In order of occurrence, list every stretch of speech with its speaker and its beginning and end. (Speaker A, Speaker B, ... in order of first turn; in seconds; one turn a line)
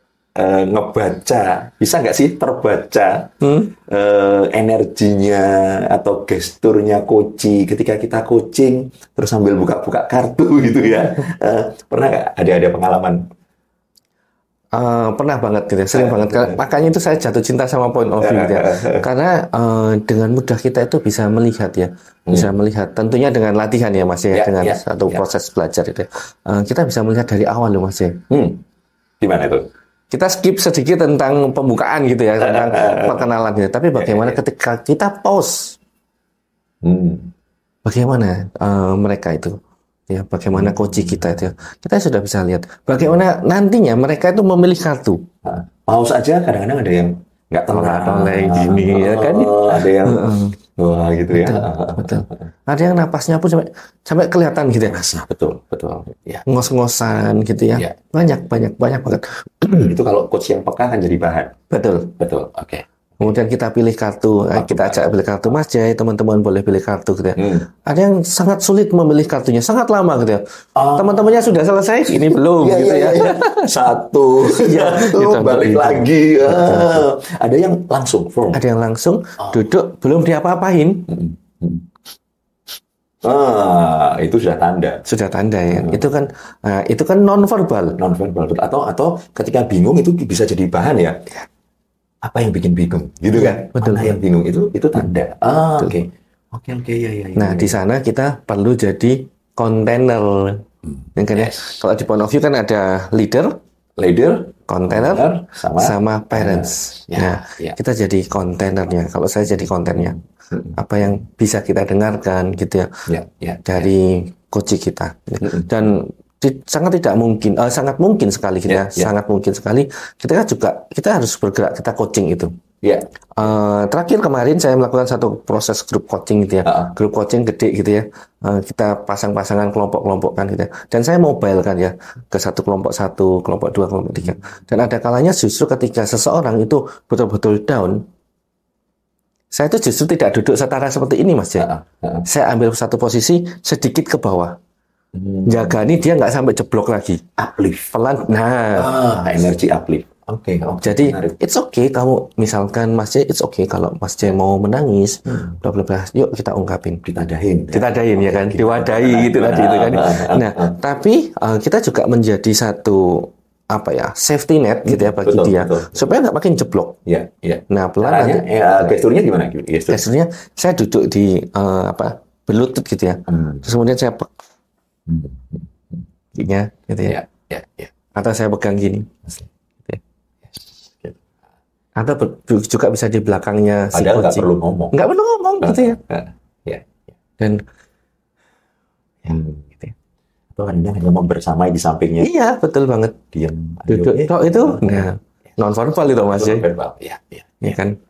Speaker A: 0.4-13.3
Speaker B: 3.4-3.7
Speaker B: 14.7-28.2
Speaker A: 15.9-16.6
Speaker A: 18.2-19.1
Speaker A: 22.3-22.5
Speaker A: 24.3-25.2
Speaker A: 28.3-28.6
Speaker A: 29.2-29.7
Speaker B: 30.1-35.8
Speaker A: 32.4-33.2
Speaker A: 34.0-34.4
Speaker A: 36.8-37.3
Speaker B: 37.9-45.3
Speaker A: 40.5-41.0
Speaker A: 45.4-52.4
Speaker B: 47.7-50.5
Speaker B: 51.3-55.0
Speaker A: 54.9-56.5
Speaker B: 56.5-59.9
Speaker A: 59.7-61.5
Speaker B: 61.7-62.1
Speaker A: 62.2-62.9
Speaker B: 63.2-70.4
Speaker A: 64.6-65.1
Speaker A: 67.4-67.7
Speaker A: 70.8-71.6
Speaker B: 70.9-73.7
Speaker A: 72.1-78.6
Speaker B: 74.5-77.1
Speaker B: 78.5-81.1
Speaker A: 81.1-81.8
Speaker A: 83.2-85.0
Speaker B: 85.1-88.0
Speaker A: 85.7-86.0
Speaker A: 88.0-91.2
Speaker A: 92.2-97.8
Speaker B: 93.3-94.2
Speaker B: 97.4-100.6
Speaker B: 101.2-103.5
Speaker A: 101.3-101.8
Speaker A: 104.0-107.8
Speaker B: 104.7-110.2
Speaker A: 110.1-110.7
Speaker B: 110.7-112.9
Speaker A: 113.1-113.9
Speaker B: 113.7-122.5
Speaker A: 115.4-115.9
Speaker A: 118.7-119.1
Speaker A: 122.8-123.1
Speaker B: 123.4-138.0
Speaker A: 126.7-126.9
Speaker B: 139.5-141.7
Speaker A: 141.6-142.2
Speaker B: 142.2-144.6
Speaker A: 145.1-145.8
Speaker B: 145.4-147.3
Speaker A: 147.4-147.9
Speaker B: 147.9-148.9
Speaker A: 148.8-151.4
Speaker B: 150.8-157.0
Speaker A: 157.0-160.8
Speaker B: 157.7-167.0
Speaker A: 164.8-166.0
Speaker A: 167.1-170.0
Speaker B: 167.7-168.5
Speaker B: 169.9-174.3
Speaker A: 173.3-173.6
Speaker A: 175.1-176.0
Speaker B: 176.3-177.2
Speaker A: 177.1-177.9
Speaker B: 178.1-179.2
Speaker A: 180.5-181.3
Speaker B: 182.0-186.0
Speaker A: 183.9-185.0
Speaker A: 185.6-186.9
Speaker A: 189.2-189.8
Speaker A: 190.6-192.3
Speaker B: 192.2-193.2
Speaker A: 193.3-195.1
Speaker B: 193.9-196.7
Speaker A: 196.2-197.8
Speaker B: 197.6-198.0